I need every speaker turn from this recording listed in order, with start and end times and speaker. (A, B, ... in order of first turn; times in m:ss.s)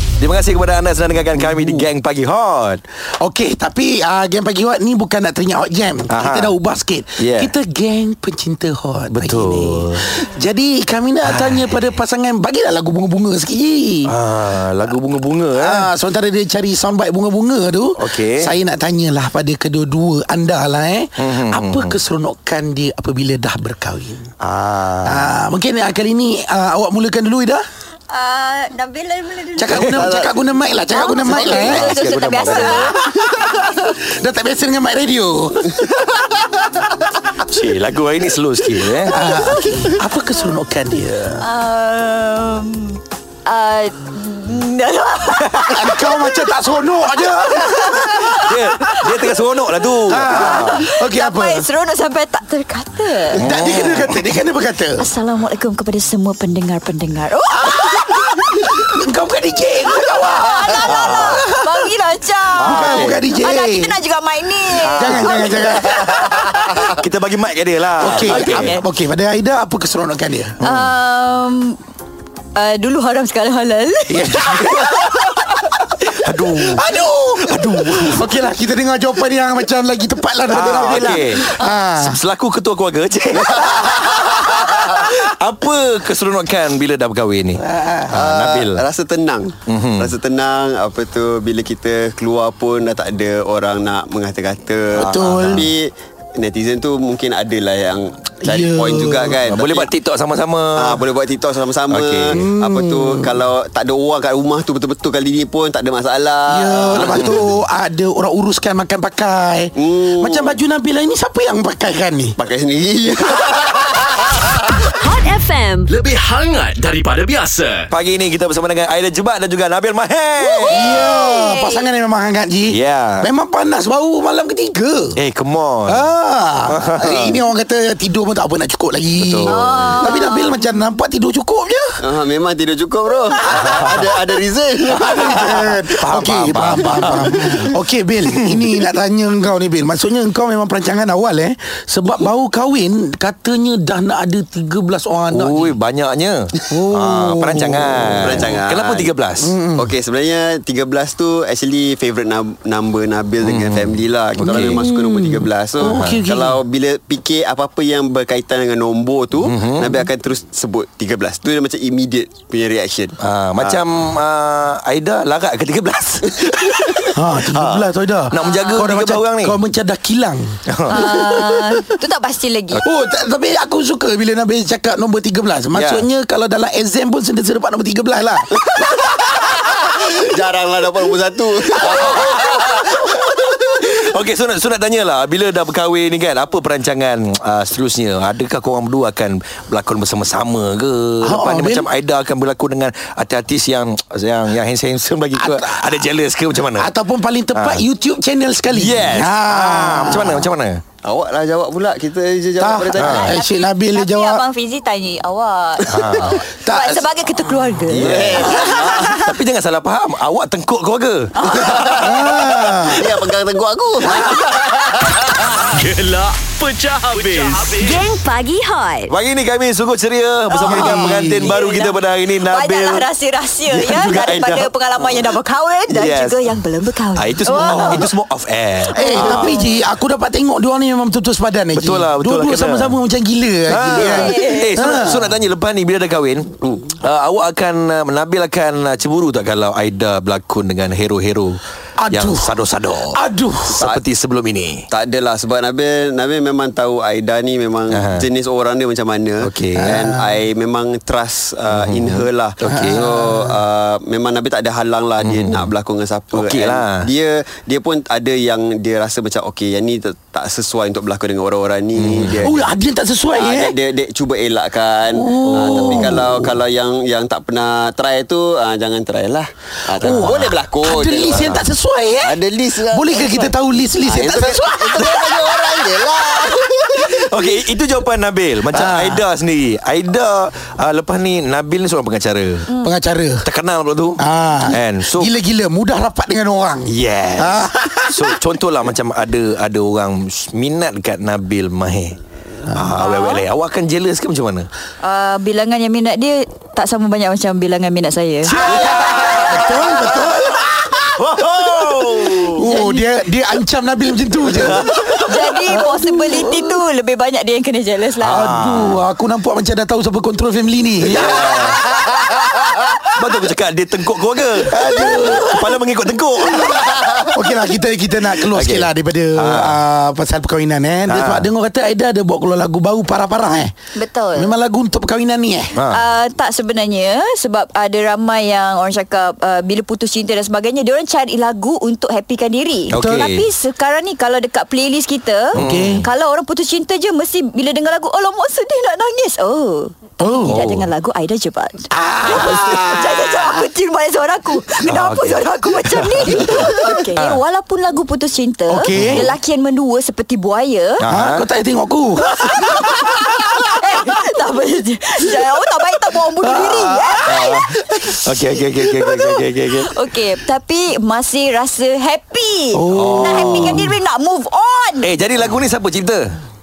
0:00.2-0:02.8 A
0:01.5-0:01.9 B
0:03.2-0:14.1 B
0:06.1-0:06.5 A
0:07.2-0:07.5 A
0:09.1-0:10.1 A
0:11.3-0:11.6 A
0:14.0-0:15.9 A
0:15.6-0:24.3 B
0:18.0-0:18.5 A
0:21.2-0:22.0 A
0:24.4-0:25.3 A
0:25.0-0:27.6 B
0:28.1-0:30.2 C
0:29.6-0:31.9 B
0:29.7-0:30.4 D
0:30.9-0:33.0 C
0:31.3-0:33.0 A
0:31.6-0:31.9 D
0:32.5-0:35.9 B
0:37.5-0:39.2 A
0:39.0-0:41.4 B
0:41.4-0:46.6 C
0:45.7-0:48.3 B
0:47.2-0:49.1 C
0:48.3-0:50.8 A
0:50.1-0:51.7 B
0:50.1-0:53.4 C
0:53.3-0:55.0 B
0:53.4-0:54.2 A
0:55.0-0:58.6 C
0:57.6-1:01.6 B
1:00.0-1:06.5 C
1:00.8-1:01.4 A
1:02.6-1:03.2 A
1:02.6-1:04.0 B
1:04.8-1:08.8 A
1:05.0-1:06.3 B
1:08.0-1:10.6 B
1:08.2-1:08.8 C
1:10.6-1:10.9 A
1:10.6-1:11.8 C
1:12.5-1:14.9 C
1:14.1-1:15.2 B
1:15.9-1:22.2 B
1:16.1-1:18.3 A
1:20.5-1:28.8 A
1:20.8-1:21.1 D
1:23.3-1:24.6 D
1:27.6-1:28.1 B
1:28.1-1:39.9 D
1:29.7-1:30.1 A
1:34.9-1:35.7 B
1:35.0-1:35.7 A
1:38.4-1:39.4 B
1:39.4-1:41.0 A
1:40.8-1:47.5 D
1:41.9-1:42.4 A
1:42.3-1:43.3 B
1:46.5-1:52.4 B
1:49.8-1:50.6 D
1:52.4-1:54.5 D
1:54.9-1:55.9 E
1:55.9-1:57.9 F
1:57.9-2:00.9 A
2:00.4-2:01.8 C
2:00.7-2:05.2 B
2:02.7-2:03.3 A
2:05.2-2:06.1 A
2:05.8-2:12.0 B
2:06.7-2:07.4 A
2:09.1-2:09.6 A
2:09.5-2:10.6 C
2:09.5-2:10.1 D
2:12.0-2:15.8 D
2:13.3-2:14.1 B
2:13.6-2:13.9 A
2:14.9-2:25.8 B
2:15.9-2:17.5 A
2:16.9-2:17.6 D
2:18.3-2:18.6 A
2:25.3-2:29.5 A
2:26.7-2:28.5 B
2:28.2-2:29.1 D
2:29.4-2:29.9 B
2:29.7-2:43.8 D
2:33.4-2:34.8 A
2:34.4-2:36.6 B
2:35.8-2:36.2 A
2:39.4-2:40.0 A
2:43.2-2:49.6 A
2:47.1-2:51.8 B
2:48.4-2:48.9 C
2:50.7-2:51.0 A
2:50.9-2:52.8 C
2:52.8-2:58.6 B
2:55.7-2:56.0 A
2:58.7-3:03.5 D
3:01.8-3:16.9 A
3:11.2-3:11.9 B
3:15.3-3:16.0 B
3:16.7-3:20.5 B
3:17.5-3:17.8 A
3:18.7-3:20.8 A
3:21.0-3:23.4 D
3:22.6-3:24.4 B
3:23.0-3:23.3 A
3:23.0-3:29.1 C
3:25.9-3:26.4 A
3:26.6-3:27.1 B
3:27.9-3:31.3 A
3:27.9-3:29.3 D
3:31.3-3:32.1 C
3:31.5-3:35.2 D
3:32.0-3:33.1 B
3:35.6-3:38.0 F
3:37.7-3:39.1 E
3:39.1-3:43.1 A
3:40.5-3:48.1 C
3:40.6-3:41.5 B
3:43.7-3:44.7 A
3:45.9-3:46.4 A
3:47.1-3:49.6 A
3:48.9-3:49.7 C
3:48.9-3:55.3 B
3:51.7-3:53.0 A
3:53.6-4:03.2 A
3:53.9-3:55.0 C
4:02.0-4:02.6 B
4:03.1-4:03.8 B
4:03.7-4:04.0 D
4:03.8-4:04.8 A
4:04.9-4:22.7 D
4:07.9-4:08.2 A
4:09.4-4:10.0 A
4:09.7-4:10.3 B
4:11.7-4:13.0 A
4:12.6-4:13.5 B
4:15.2-4:15.7 A
4:16.3-4:17.0 A
4:21.9-4:22.6 A
4:22.4-4:23.8 B
4:23.3-4:31.6 D
4:25.1-4:26.5 B
4:25.5-4:26.3 A
4:30.0-4:35.1 B
4:30.0-4:30.5 A
4:32.2-4:37.3 D
4:34.9-4:35.7 A
4:36.9-4:42.7 A
4:38.7-4:39.2 B
4:42.8-4:43.5 B
4:43.4-4:45.3 A
4:44.2-4:48.3 B
4:46.8-4:54.7 A
4:52.7-4:53.0 B
4:53.1-4:53.4 C
4:55.0-4:58.7 C
4:58.4-5:01.0 B
4:58.6-5:00.1 A
4:58.9-4:59.4 D
5:01.2-5:02.8 A
5:02.5-5:06.8 B
5:02.6-5:03.0 C
5:04.5-5:05.3 A
5:05.2-5:08.5 C
5:08.2-5:09.0 A
5:08.3-5:12.7 B
5:11.0-5:11.8 A
5:13.1-5:16.8 A
5:14.6-5:15.8 B
5:16.5-5:23.7 B
5:18.5-5:19.8 A
5:21.1-5:21.5 A
5:23.9-5:24.5 C
5:24.3-5:25.8 B
5:25.7-5:26.0 A
5:25.9-5:51.0 C
5:32.9-5:33.4 A
5:32.9-5:33.3 B
5:35.5-5:36.0 B
5:35.5-5:36.1 A
5:40.2-5:40.6 B
5:40.5-5:40.9 A
5:41.9-5:43.5 B
5:44.8-5:47.4 A
5:48.7-5:49.3 B
5:48.9-5:49.3 A
5:51.0-5:51.4 A
5:51.1-5:53.2 B
5:52.4-5:57.6 C
5:56.4-5:58.1 B
5:57.2-5:59.9 A
5:59.2-6:05.1 C
6:02.7-6:03.9 B
6:02.9-6:03.9 A
6:05.0-6:06.3 A